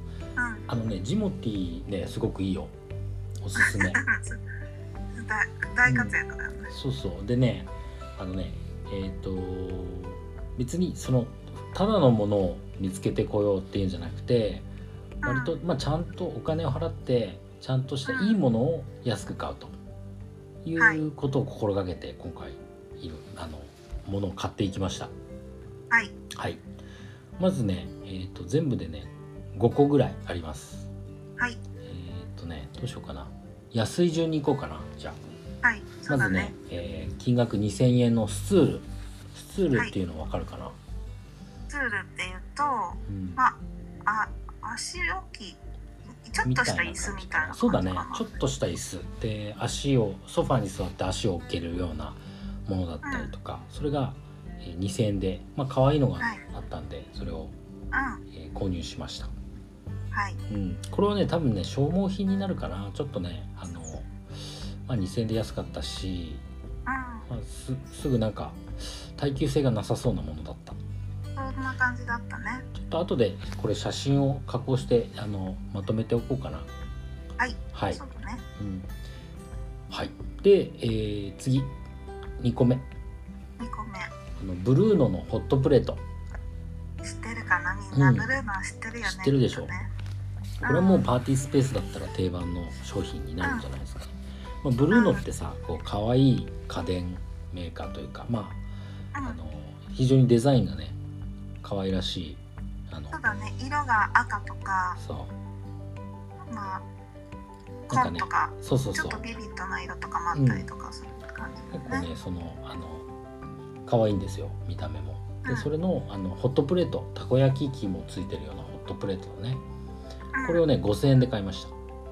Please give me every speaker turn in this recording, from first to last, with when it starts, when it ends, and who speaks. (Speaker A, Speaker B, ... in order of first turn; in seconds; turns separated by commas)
Speaker A: 0.4-0.7, Speaker B: 0.7-2.7, Speaker B: 3.4-4.0, Speaker A: 3.5-4.4, Speaker A: 5.1-6.7, Speaker B: 5.8-6.2, Speaker B: 6.7-14.7, Speaker A: 15.2-15.5, Speaker B: 15.2-19.7, Speaker A: 18.1-18.4, Speaker B: 20.6-25.1, Speaker B: 26.3-26.6, Speaker B: 27.4-30.9, Speaker B: 31.8-35.2, Speaker A: 35.6-36.5, Speaker B: 36.1-40.8, Speaker A: 41.7-45.6, Speaker B: 43.1-43.4, Speaker A: 46.3-48.2, Speaker B: 46.4-57.5, Speaker A: 53.0-53.3, Speaker A: 57.9-58.2, Speaker B: 58.3-59.3, Speaker A: 60.1-60.4, Speaker B: 60.5-66.4, Speaker A: 66.8-67.3, Speaker B: 67.3-70.8, Speaker A: 71.3-72.7, Speaker B: 72.7-76.7, Speaker A: 77.4-78.4, Speaker B: 77.7-78.0, Speaker B: 78.6-78.9, Speaker B: 79.9-81.7, Speaker B: 82.4-82.8, Speaker A: 83.6-84.1, Speaker B: 84.3-86.0, Speaker A: 87.0-89.9, Speaker B: 87.9-88.3, Speaker B: 89.0-89.8, Speaker B: 90.6-98.6, Speaker A: 90.6-91.0, Speaker A: 93.4-93.7, Speaker A: 94.9-95.2, Speaker B: 99.2-101.0, Speaker B: 101.6-103.2, Speaker A: 103.1-105.0, Speaker B: 105.0-105.3, Speaker A: 106.5-106.8, Speaker A: 107.9-112.1, Speaker B: 107.9-109.3, Speaker B: 110.3-110.7, Speaker B: 111.7-113.0, Speaker B: 113.8-119.6, Speaker A: 120.3-120.6, Speaker B: 120.4-121.7